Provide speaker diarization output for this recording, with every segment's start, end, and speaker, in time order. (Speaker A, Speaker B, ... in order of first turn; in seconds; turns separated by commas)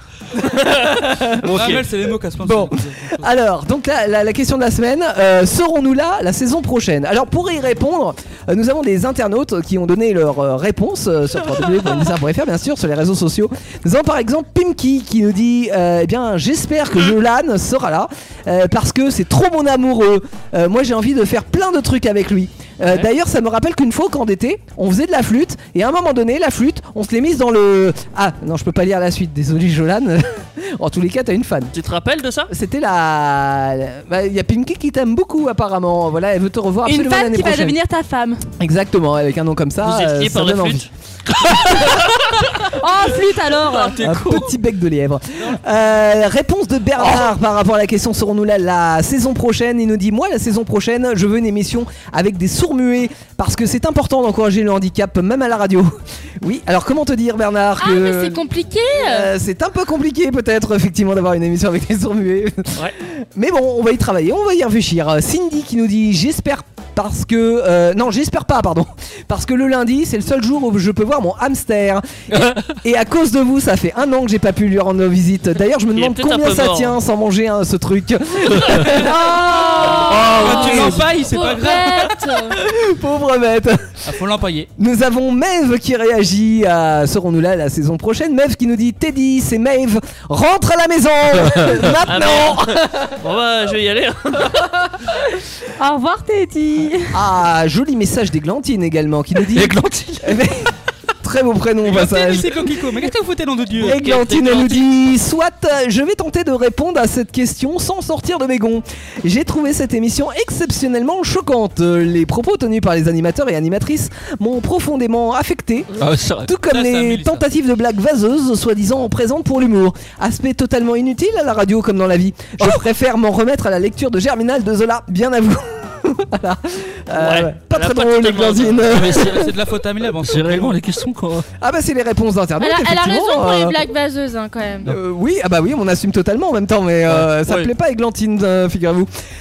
Speaker A: 0.3-1.9, Speaker B: 1.4-3.3, Speaker C: 1.5-1.8, Speaker A: 2.4-31.7, Speaker C: 31.7-32.5, Speaker A: 32.5-37.8, Speaker D: 36.8-38.4, Speaker A: 38.6-40.9, Speaker C: 39.8-40.9, Speaker C: 41.7-42.1, Speaker D: 42.7-44.1, Speaker A: 44.0-58.4, Speaker E: 57.8-59.3, Speaker A: 59.0-81.1, Speaker F: 72.4-72.6, Speaker C: 75.9-77.0, Speaker D: 78.9-82.2, Speaker B: 79.8-82.1, Speaker F: 80.0-81.0, Speaker E: 81.5-82.5, Speaker A: 82.4-83.9, Speaker B: 84.0-84.7, Speaker A: 84.8-93.1, Speaker F: 91.4-91.7, Speaker C: 92.0-94.7, Speaker D: 95.8-97.2, Speaker A: 97.1-100.7, Speaker F: 99.5-100.4, Speaker A: 101.2-102.7, Speaker B: 101.8-104.0, Speaker A: 103.7-129.5, Speaker C: 103.8-104.9, Speaker F: 116.0-116.5, Speaker B: 116.6-117.4, Speaker C: 127.1-129.0, Speaker F: 128.9-129.5, Speaker B: 129.3-130.8, Speaker F: 130.2-131.4, Speaker A: 131.6-133.8, Speaker E: 132.6-134.9, Speaker A: 134.8-139.1, Speaker C: 137.1-137.7